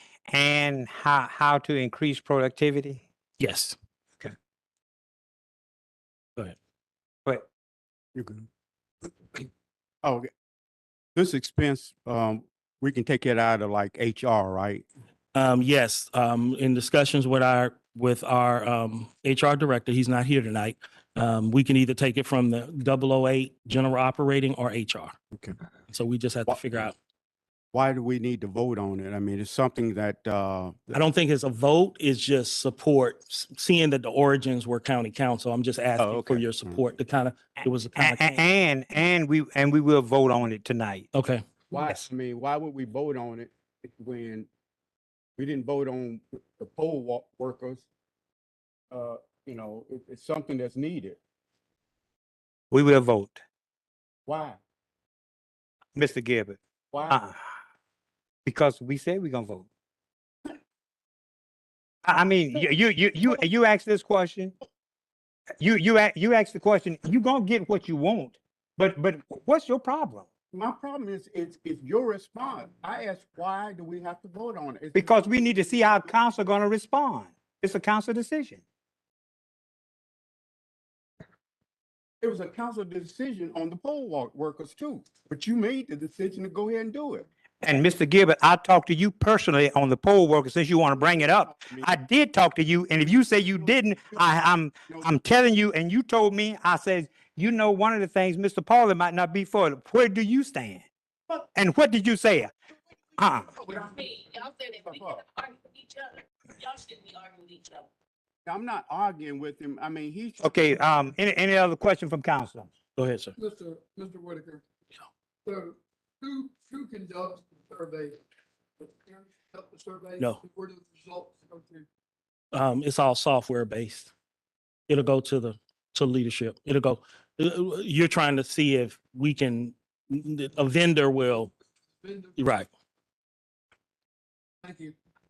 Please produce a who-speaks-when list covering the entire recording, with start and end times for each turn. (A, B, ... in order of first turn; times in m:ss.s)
0:00.3-0:03.0 A
0:03.4-0:03.8 B
0:08.1-0:08.4 C
0:11.2-0:14.8 C
0:15.3-0:25.1 B
0:25.9-0:27.0 B
0:27.7-0:31.0 C
0:30.9-0:38.4 B
0:36.0-0:36.7 C
0:38.0-0:41.1 A
0:41.1-0:41.4 B
0:41.7-0:44.5 C
0:45.4-0:47.8 C
0:48.9-0:51.2 C
0:52.7-0:53.4 A
0:54.3-0:54.6 C
0:56.0-0:56.6 A
0:56.9-0:57.2 C
0:57.1-0:57.4 A
0:58.4-0:59.7 A
1:02.0-1:04.5 A
1:05.6-1:10.2 A
1:10.5-1:15.8 C
1:14.9-1:18.6 A
1:22.2-1:27.3 C
1:27.6-1:40.8 A
1:30.9-1:31.9 C
1:33.7-1:34.2 C
1:41.5-1:42.5 A
1:43.2-1:43.5 A
1:43.5-1:44.2 C
1:44.2-1:44.8 D
1:44.8-1:45.2 C
1:45.4-1:47.7 D
1:48.4-1:50.4 C
1:50.4-1:52.7 A
1:53.0-1:53.3 B
1:53.4-1:54.6 E
1:55.4-1:58.2 E
1:58.8-2:01.9 E
2:02.5-2:04.1 B
2:04.9-2:11.5 B
2:12.0-2:12.3 E
2:12.4-2:12.7 B
2:14.6-2:14.9 E